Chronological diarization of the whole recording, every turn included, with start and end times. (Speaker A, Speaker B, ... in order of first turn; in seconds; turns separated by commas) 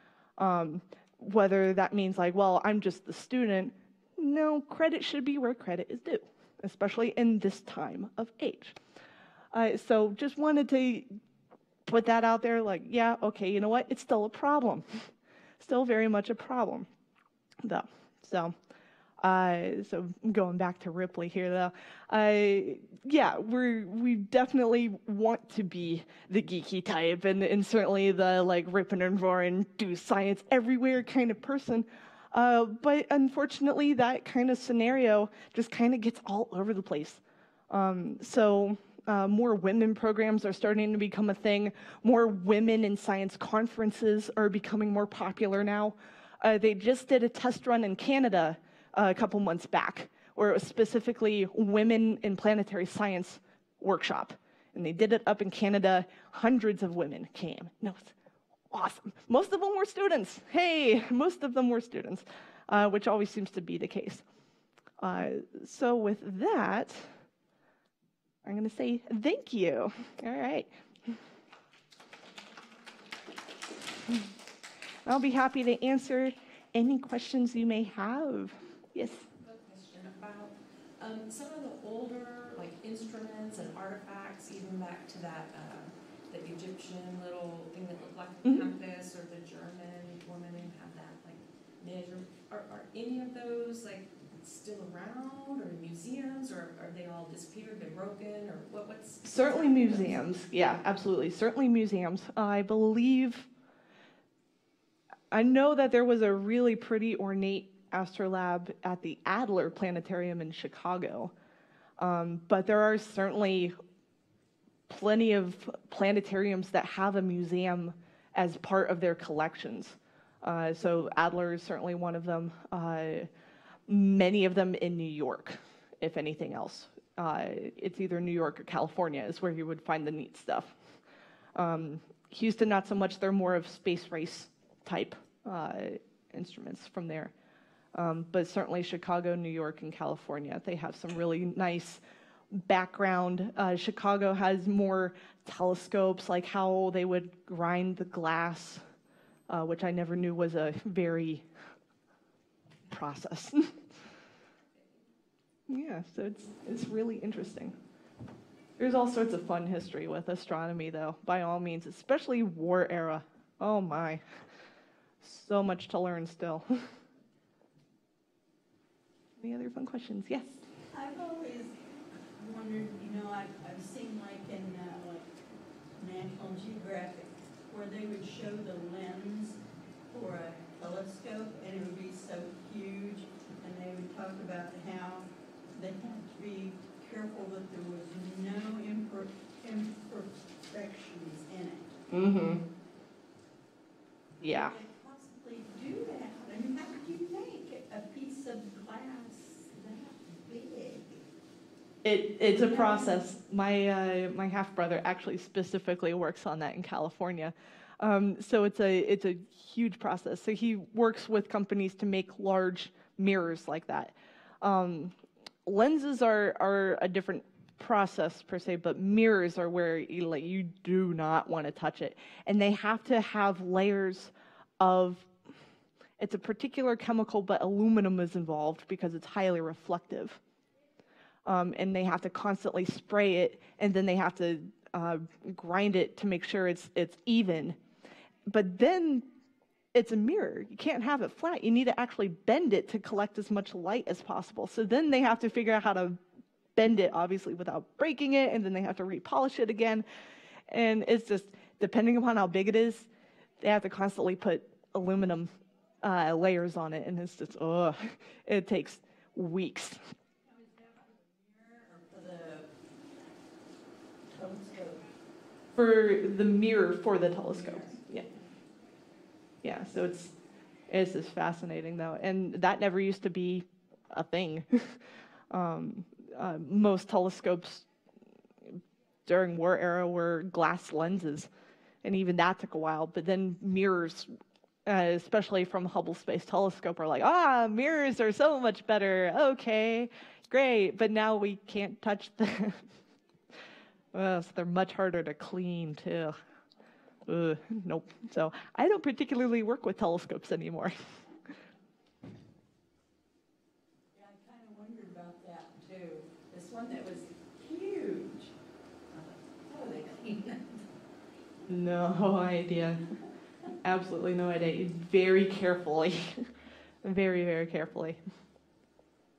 Speaker A: 0.4-8.8, Speaker A: 9.5-11.1, Speaker A: 11.8-15.1, Speaker A: 15.6-16.9, Speaker A: 17.6-18.5, Speaker A: 19.2-58.1, Speaker A: 58.7-64.2, Speaker A: 65.0-67.1, Speaker A: 68.4-71.2, Speaker A: 75.0-79.3, Speaker B: 79.3-100.3, Speaker A: 99.2-103.5, Speaker A: 105.3-111.3, Speaker A: 112.0-113.7, Speaker A: 114.9-123.3, Speaker A: 123.9-130.8, Speaker A: 131.5-137.3, Speaker A: 137.9-148.8, Speaker A: 149.5-151.4, Speaker A: 152.9-153.8, Speaker A: 155.7-157.8, Speaker A: 158.8-164.2, Speaker A: 165.2-166.9, Speaker A: 169.4-170.6, Speaker C: 170.9-175.3, Speaker C: 175.9-179.6, Speaker C: 180.1-192.0, Speaker A: 192.1-192.6, Speaker A: 194.4-194.7, Speaker C: 194.4-201.2, Speaker A: 202.0-215.1, Speaker C: 202.5-203.2, Speaker A: 215.6-225.3, Speaker A: 226.2-230.4, Speaker A: 231.4-237.8, Speaker A: 238.5-239.2, Speaker A: 239.9-246.2, Speaker A: 246.8-250.0, Speaker A: 250.7-253.1, Speaker A: 253.6-260.0, Speaker C: 260.8-262.7, Speaker C: 264.3-265.0, Speaker A: 265.7-268.3, Speaker C: 267.7-267.9, Speaker A: 269.6-270.3, Speaker A: 270.9-277.9, Speaker A: 278.6-281.5, Speaker A: 282.0-284.3, Speaker A: 284.8-292.9, Speaker A: 294.1-296.3, Speaker A: 297.3-300.9, Speaker C: 304.1-308.5, Speaker C: 309.1-310.8, Speaker A: 311.7-313.0, Speaker A: 313.8-316.5, Speaker A: 317.0-318.2